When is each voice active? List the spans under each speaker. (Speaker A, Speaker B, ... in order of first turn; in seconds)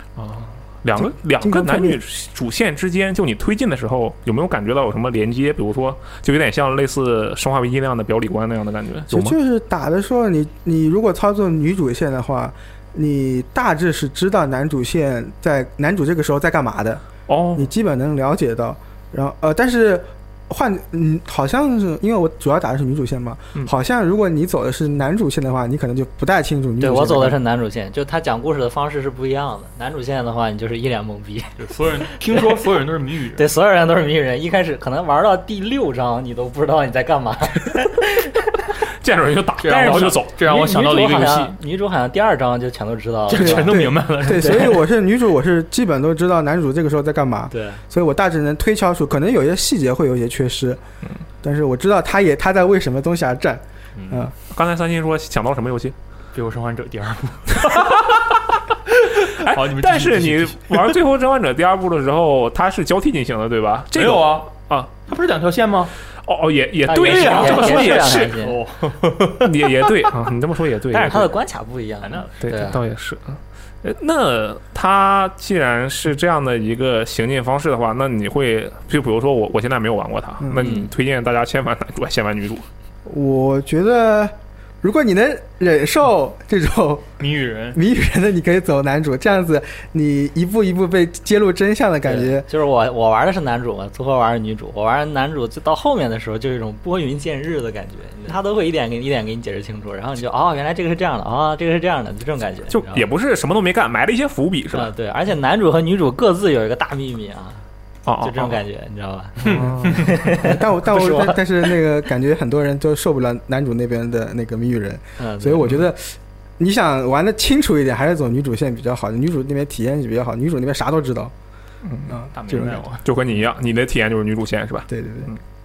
Speaker A: 0.2-9.3, 17.3-17.7, 39.0-40.3, 54.5-55.9, 57.6-58.2, 59.2-64.9, 66.2-68.3, 69.3-71.3, 72.4-82.7, 102.7-104.9, 108.0-108.6, 109.4-110.1, 121.8-125.4
Speaker B: 1.0-2.0, 9.1-27.4, 43.3-50.8, 51.4-54.3, 80.4-80.7, 83.0-87.2, 87.7-92.5, 110.2-121.3, 122.1-122.9, 124.9-125.3
Speaker C: 26.8-32.6, 33.4-38.3, 39.7-44.7, 47.5-47.8, 66.8-68.6, 70.9-72.8, 80.5-80.9, 92.0-103.1, 104.7-107.6, 108.2-111.4, 115.2-115.7
Speaker D: 31.6-33.4, 39.6-41.5, 43.3-44.8, 56.3-58.1, 59.1-60.9, 63.9-64.5, 65.0-65.9, 66.9-70.1, 72.0-72.3, 87.2-87.8, 109.4-109.7, 122.3-123.0